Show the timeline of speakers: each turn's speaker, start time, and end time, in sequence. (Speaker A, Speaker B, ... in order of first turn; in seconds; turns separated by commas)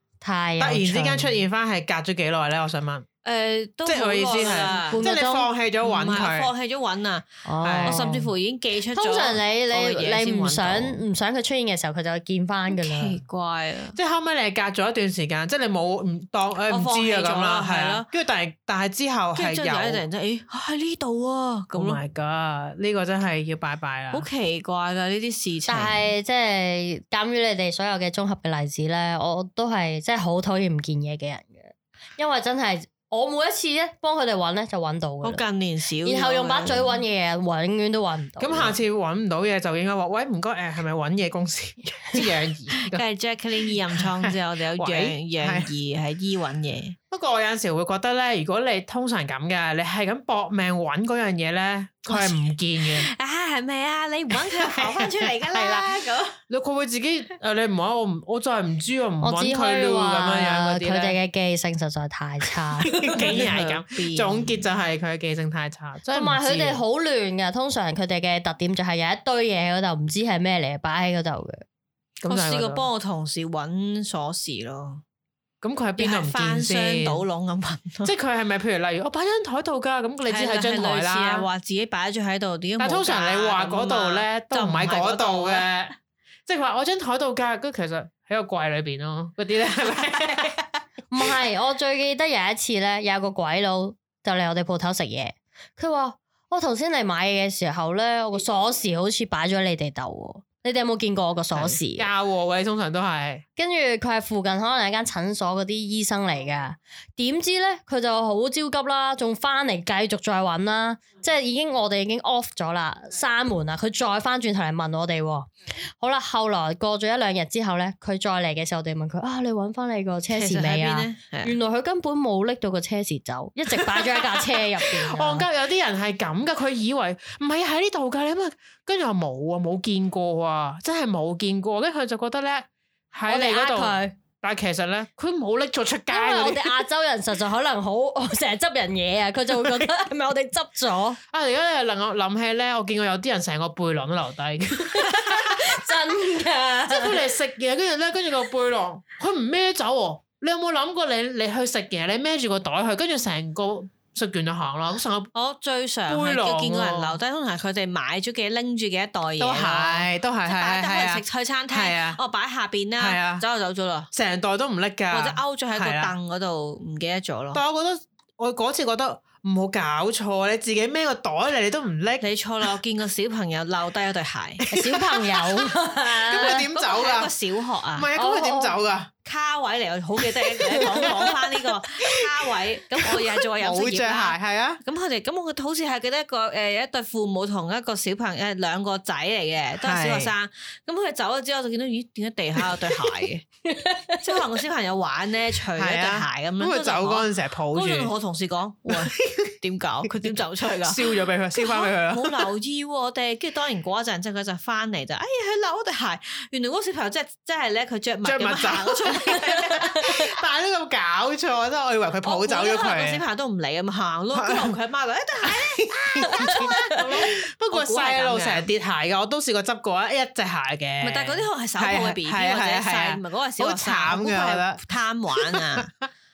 Speaker A: 0.2-1.3, Speaker B: 0.6-3.1, Speaker C: 3.2-5.0, Speaker B: 3.8-6.5, Speaker A: 4.2-5.5, Speaker C: 5.8-7.3, Speaker A: 7.4-8.3, Speaker B: 7.6-8.0, Speaker C: 7.8-11.0, Speaker A: 8.9-13.2, Speaker C: 12.7-14.0, Speaker B: 13.9-20.0, Speaker C: 16.7-18.1, Speaker C: 19.4-22.0, Speaker B: 21.7-24.2, Speaker C: 24.1-26.1, Speaker A: 25.7-35.4, Speaker C: 35.2-36.9, Speaker A: 36.0-38.8, Speaker B: 38.4-43.0, Speaker C: 42.2-47.0, Speaker B: 43.9-45.7, Speaker B: 47.1-53.1, Speaker C: 52.1-56.4, Speaker B: 54.3-61.1, Speaker A: 59.2-63.2, Speaker B: 62.9-66.8, Speaker C: 63.1-64.5, Speaker A: 66.1-71.6, Speaker B: 72.2-72.8, Speaker C: 72.3-75.0, Speaker B: 75.6-77.2, Speaker C: 76.0-78.1, Speaker B: 78.0-81.5, Speaker C: 80.3-85.7, Speaker B: 82.8-85.9, Speaker B: 86.5-90.6, Speaker A: 91.1-102.1, Speaker B: 101.5-103.4, Speaker A: 103.6-125.4, Speaker C: 120.3-121.6, Speaker B: 123.7-136.8, Speaker A: 133.3-134.1, Speaker A: 136.1-141.2, Speaker B: 141.3-145.8, Speaker A: 144.9-147.2, Speaker B: 146.9-155.3, Speaker C: 155.3-164.1, Speaker B: 156.1-157.2, Speaker B: 159.4-162.2, Speaker B: 163.0-163.4, Speaker B: 164.1-166.1, Speaker C: 165.1-167.6, Speaker B: 167.5-172.2, Speaker C: 172.2-174.6, Speaker B: 174.7-175.5, Speaker A: 174.7-176.6, Speaker B: 176.2-177.3, Speaker C: 176.3-178.1, Speaker B: 177.9-179.1, Speaker A: 178.1-178.8, Speaker C: 179.2-193.4, Speaker B: 180.6-181.4, Speaker B: 182.0-184.8, Speaker B: 189.8-190.3, Speaker A: 193.8-194.2, Speaker C: 194.2-210.3, Speaker B: 195.7-198.1, Speaker B: 198.9-199.5, Speaker B: 200.1-202.5, Speaker B: 208.2-213.2, Speaker C: 212.2-218.7, Speaker B: 214.3-214.8, Speaker B: 215.4-224.8, Speaker C: 221.0-225.9, Speaker B: 225.3-226.1